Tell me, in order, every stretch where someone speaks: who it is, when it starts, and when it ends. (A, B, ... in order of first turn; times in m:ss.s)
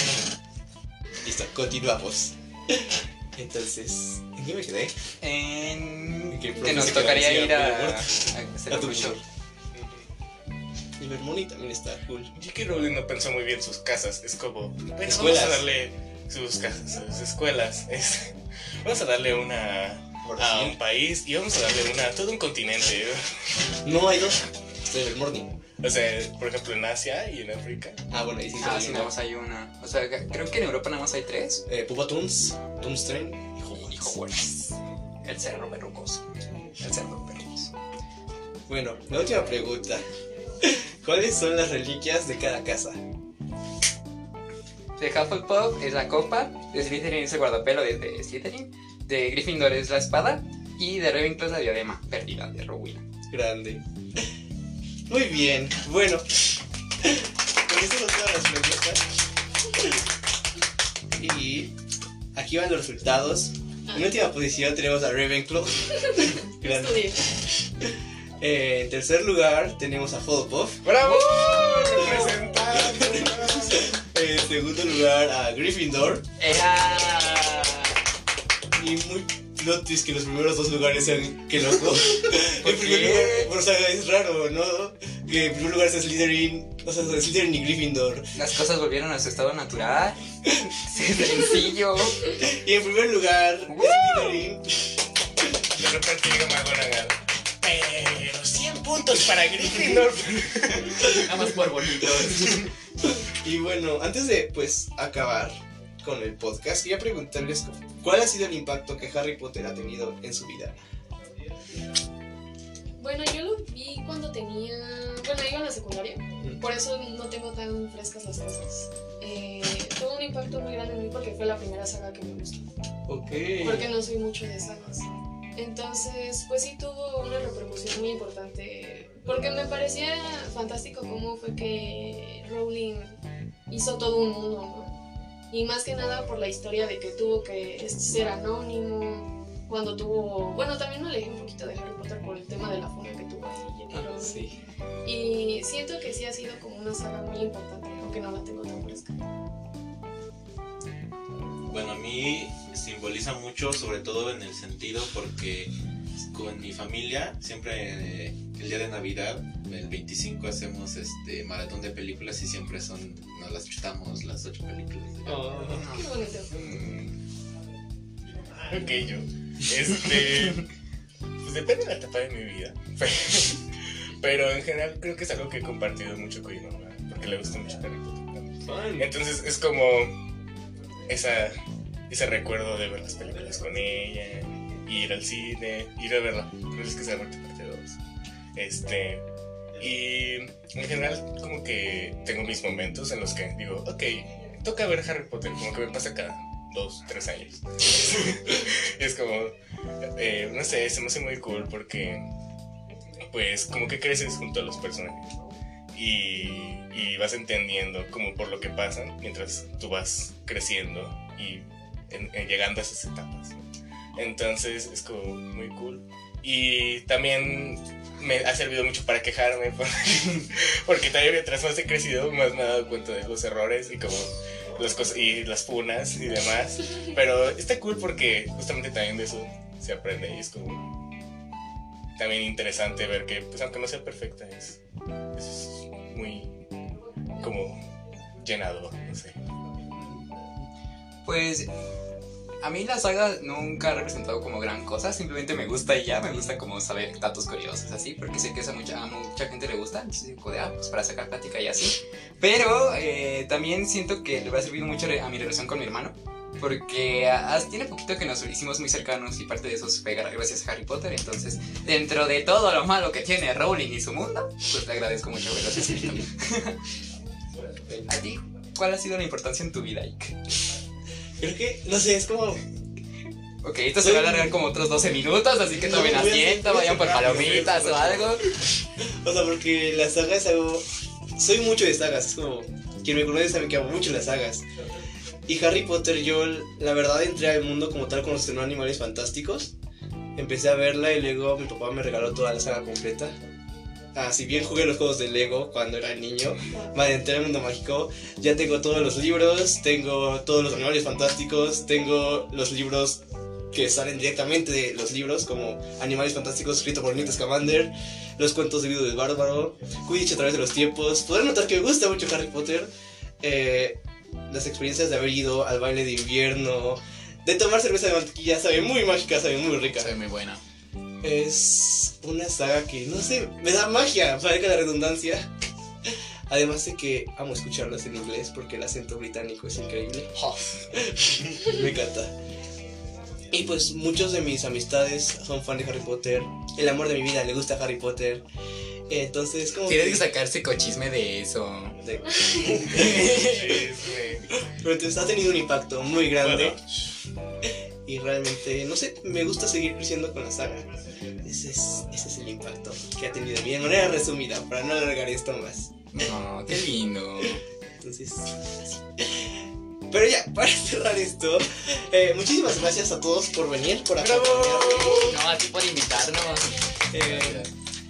0:01.2-0:04.9 A
0:05.2-0:09.2 B
0:06.3-0:08.1 A
0:08.7-0:09.2 A
0:09.7-0:10.1 C
0:11.0-0:12.3 A
0:12.4-0:23.3 C
0:15.0-0:15.7 A
0:20.2-0:20.8 A
0:23.8-0:25.5 A
0:25.8-0:28.0 C
0:28.1-0:29.1 A
0:28.6-0:31.6 B
0:31.7-0:34.1 A
0:33.7-0:36.2 B
0:36.8-0:37.7 B
0:38.7-0:40.0 A
0:40.6-0:43.0 A
0:45.0-0:53.0 B
0:53.3-0:54.2 A
0:55.1-0:56.4 A
0:57.0-0:59.0 A
1:01.2-1:01.7 A
1:02.3-1:07.2 A
1:06.1-1:07.2 D
1:07.8-1:10.9 A
1:10.8-1:13.9 C
1:11.2-1:12.3 D
1:12.7-1:16.2 A
1:16.4-1:18.0 B
1:18.7-1:28.3 A
1:22.6-1:23.5 B
1:28.4-1:30.2 B
1:30.7-1:32.3 B
1:32.3-1:34.8 A
1:33.7-1:34.4 B
1:35.7-1:41.1 C
1:40.9-1:42.7 B
1:42.2-1:50.8 A
1:53.0-2:02.7 D
2:03.1-2:03.9 A
2:03.5-2:15.0 D
2:15.5-2:24.5 D
2:23.9-2:24.5 A
2:25.0-2:29.1 D
2:31.7-2:45.6 E
2:45.2-2:45.9 A
2:45.7-2:46.2 B
2:45.8-2:46.6 D
2:46.5-2:47.2 C
2:48.7-2:50.7 C
2:51.4-2:53.6 C
2:54.2-3:00.1 C
2:58.6-2:59.1 A
3:01.1-3:08.0 C
3:08.5-3:09.2 C
3:09.8-3:19.5 C
3:20.1-3:22.3 C
3:23.3-3:25.3 C
3:25.9-3:33.6 C
3:34.1-3:50.8 C
3:52.2-3:54.8 C
3:55.3-3:56.5 C
3:57.4-3:57.8 C
3:58.4-3:59.3 C
4:01.2-4:01.7 B
4:02.6-4:26.8 B
4:27.9-4:28.1 A
4:28.1-4:30.3 B
4:31.4-4:32.6 A
4:33.6-4:38.4 B
4:34.0-4:34.5 A
4:35.7-4:38.4 A
4:39.0-4:44.7 A
4:45.5-4:49.7 A
4:50.4-4:53.4 A
4:54.1-5:03.2 A
5:03.7-5:12.9 A
5:13.4-5:20.2 A
5:20.0-5:20.6 B
5:21.2-5:25.5 A
5:26.0-5:30.3 A
5:30.4-5:30.8 C
5:30.9-5:32.3 A
5:33.5-5:38.4 A
5:39.1-5:40.2 A
5:39.9-5:42.0 B
5:42.0-5:43.8 A
5:42.6-5:43.8 B
5:43.0-5:44.5 C
5:44.5-5:46.8 A
5:46.4-5:47.1 C
5:47.6-5:56.1 A
5:56.1-5:57.6 B
5:58.0-6:05.4 A
6:04.2-6:05.2 C
6:04.9-6:05.3 D
6:04.9-6:06.8 B
6:06.2-6:07.1 D
6:07.1-6:07.7 A
6:07.2-6:07.7 E